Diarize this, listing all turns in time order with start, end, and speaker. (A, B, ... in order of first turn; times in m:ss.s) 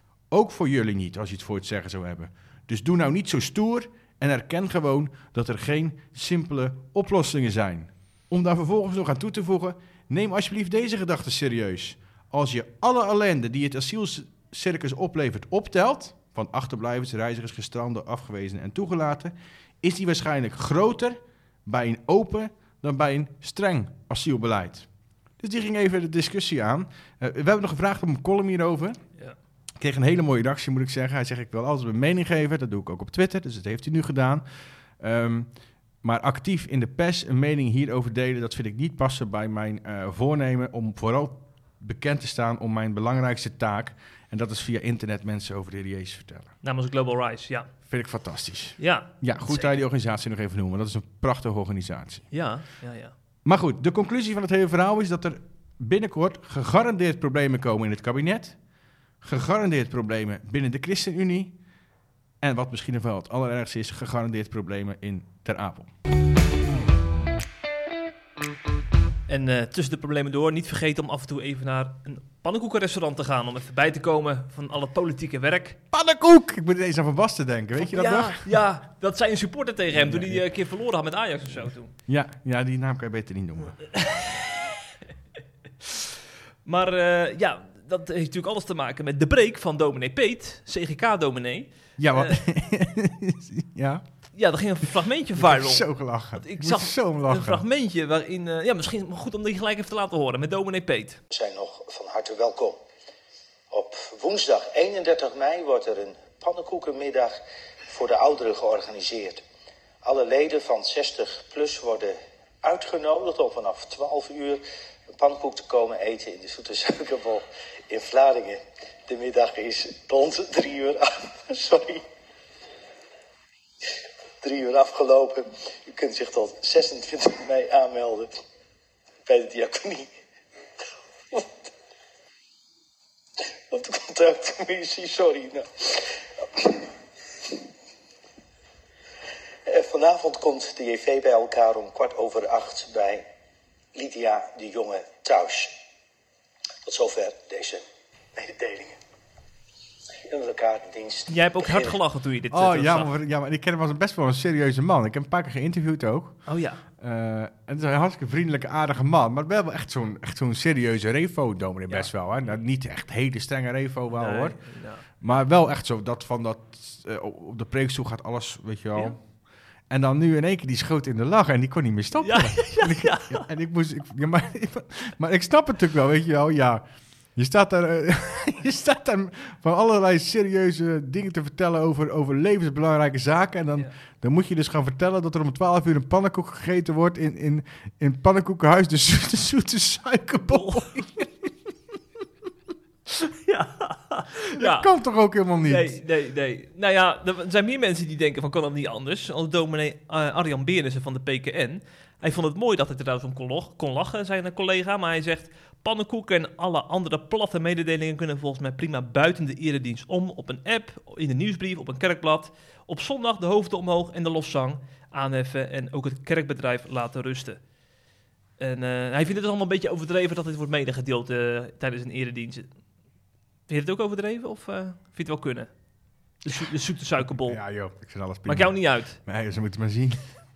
0:00.3-0:24.9 A
0:25.4-0:29.0 A
0:29.8-0:34.4 A
0:35.0-0:46.5 A
0:46.6-0:47.7 B
0:47.9-0:52.3 A
0:48.8-0:49.8 B
0:52.3-0:53.1 B
0:53.4-0:58.6 A
0:59.2-1:01.6 A
1:02.4-1:05.9 A
1:09.3-1:15.8 B
1:15.9-1:18.6 A
1:17.8-1:21.9 B
1:19.9-1:20.4 A
1:22.1-1:23.8 A
1:23.9-1:24.7 B
1:26.6-1:32.4 B
1:32.0-1:34.0 A
1:34.3-1:41.2 B
1:35.4-1:37.6 A
1:41.3-1:42.8 C
1:43.7-1:47.3 C
1:47.9-1:49.4 C
1:50.0-1:54.6 C
1:55.2-2:02.0 C
2:04.4-2:08.3 C
2:09.2-2:10.1 C
2:11.3-2:11.7 C
2:13.7-2:16.9 C
2:19.6-2:23.2 C
2:23.9-2:25.7 C
2:26.8-2:27.8 C
2:28.3-2:29.0 C
2:30.3-2:31.9 C
2:31.3-2:33.1 B
2:32.5-2:44.6 A
2:36.4-2:36.8 B
2:44.1-2:45.0 B
2:45.1-2:49.2 A
2:49.9-3:11.3 A
2:52.2-2:53.4 B
3:10.5-3:10.9 B
3:13.4-3:14.9 B
3:14.6-3:16.0 A
3:15.6-3:37.6 B
3:38.6-3:42.7 B
3:43.7-3:45.7 B
3:46.4-3:47.6 B
3:47.4-3:50.2 A
3:48.4-3:49.2 B